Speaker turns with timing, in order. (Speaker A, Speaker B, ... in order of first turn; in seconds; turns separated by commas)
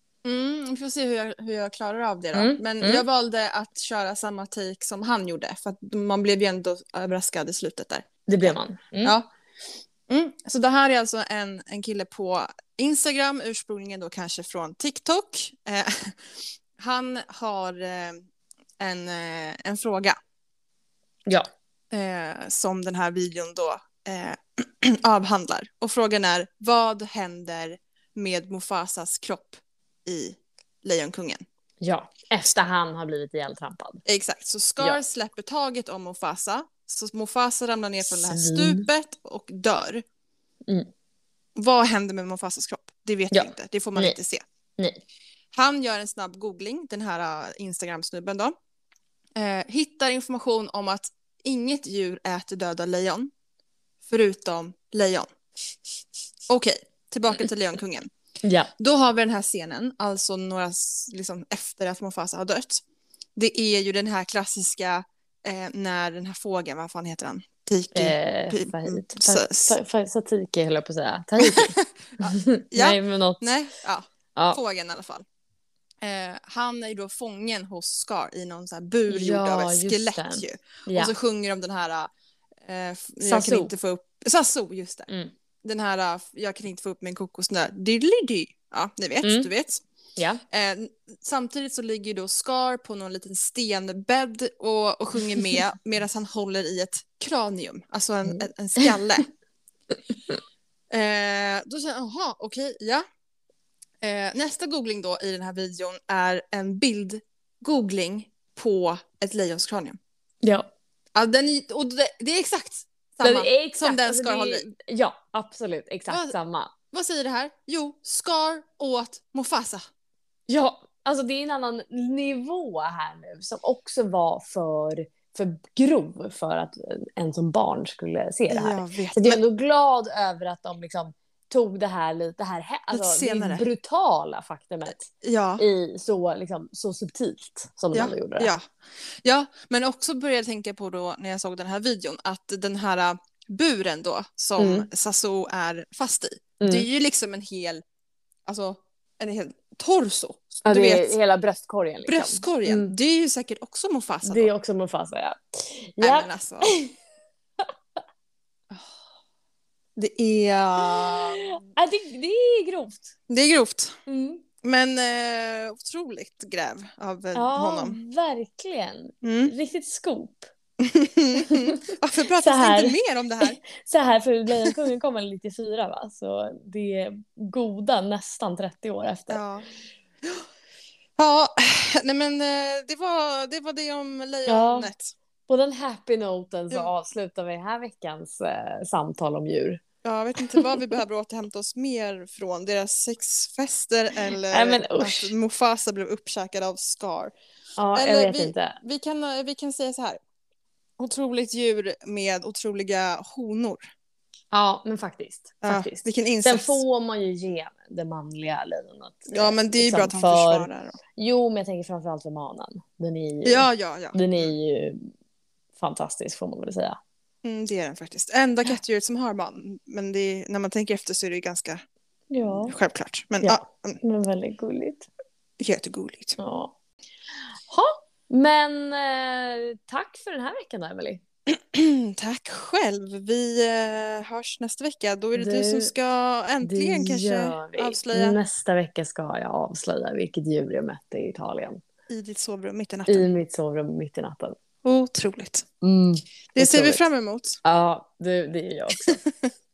Speaker A: 0.2-9.3, Speaker B: 2.3-3.0, Speaker B: 8.3-9.2, Speaker A: 10.1-16.2, Speaker A: 16.8-18.2, Speaker A: 18.8-20.2, Speaker A: 21.9-31.4, Speaker B: 31.8-34.0, Speaker A: 34.0-40.0, Speaker B: 38.0-38.9, Speaker A: 41.6-44.4, Speaker B: 43.3-44.2, Speaker A: 45.5-48.5, Speaker A: 49.4-53.3, Speaker A: 54.0-55.3, Speaker A: 56.5-58.1, Speaker B: 58.4-58.7, Speaker A: 58.8-62.8, Speaker A: 63.4-69.7, Speaker B: 67.9-73.5, Speaker A: 71.4-75.2, Speaker A: 76.0-82.1, Speaker B: 79.1-81.1, Speaker A: 82.6-85.1, Speaker B: 83.2-83.7, Speaker A: 85.6-89.8, Speaker B: 89.2-89.5, Speaker B: 90.2-90.4, Speaker A: 90.5-99.3, Speaker B: 98.3-98.9, Speaker A: 100.9-103.0, Speaker A: 104.0-110.0, Speaker B: 110.4-110.7, Speaker A: 111.1-114.7, Speaker B: 113.2-116.7, Speaker A: 116.1-116.3, Speaker A: 116.9-119.8, Speaker B: 120.5-135.1, Speaker A: 128.5-129.4, Speaker A: 132.9-133.7, Speaker A: 135.2-135.6, Speaker B: 135.6-138.5, Speaker A: 137.9-138.7, Speaker A: 139.2-147.8, Speaker B: 144.6-144.9, Speaker B: 146.6-146.8, Speaker A: 148.4-151.2, Speaker B: 150.6-152.9, Speaker A: 152.1-154.5, Speaker B: 154.2-156.9, Speaker A: 156.0-156.7, Speaker A: 160.0-161.5, Speaker B: 160.8-163.1, Speaker A: 163.3-164.0, Speaker B: 164.1-164.4, Speaker A: 164.6-168.0, Speaker B: 167.3-170.5, Speaker A: 169.2-169.5, Speaker A: 170.8-173.6, Speaker B: 171.3-179.4, Speaker A: 179.3-179.6, Speaker A: 181.2-185.1, Speaker B: 184.5-184.9, Speaker B: 185.5-189.8, Speaker A: 190.0-197.3, Speaker B: 194.5-195.3, Speaker B: 197.8-198.7, Speaker A: 197.9-200.2, Speaker A: 201.0-203.8, Speaker B: 204.5-215.1, Speaker A: 205.6-206.8, Speaker A: 209.3-211.0, Speaker A: 213.4-214.2, Speaker B: 215.8-217.0, Speaker A: 217.4-221.8, Speaker B: 222.3-222.8, Speaker A: 222.5-224.0, Speaker B: 223.4-225.1, Speaker A: 225.6-226.4, Speaker B: 226.4-226.7, Speaker B: 227.7-231.2, Speaker A: 231.5-238.4, Speaker B: 235.3-235.9, Speaker B: 236.6-241.8, Speaker A: 242.1-243.3, Speaker B: 243.1-244.6, Speaker A: 244.8-245.7, Speaker B: 245.8-247.0, Speaker A: 246.5-247.6, Speaker B: 247.6-249.2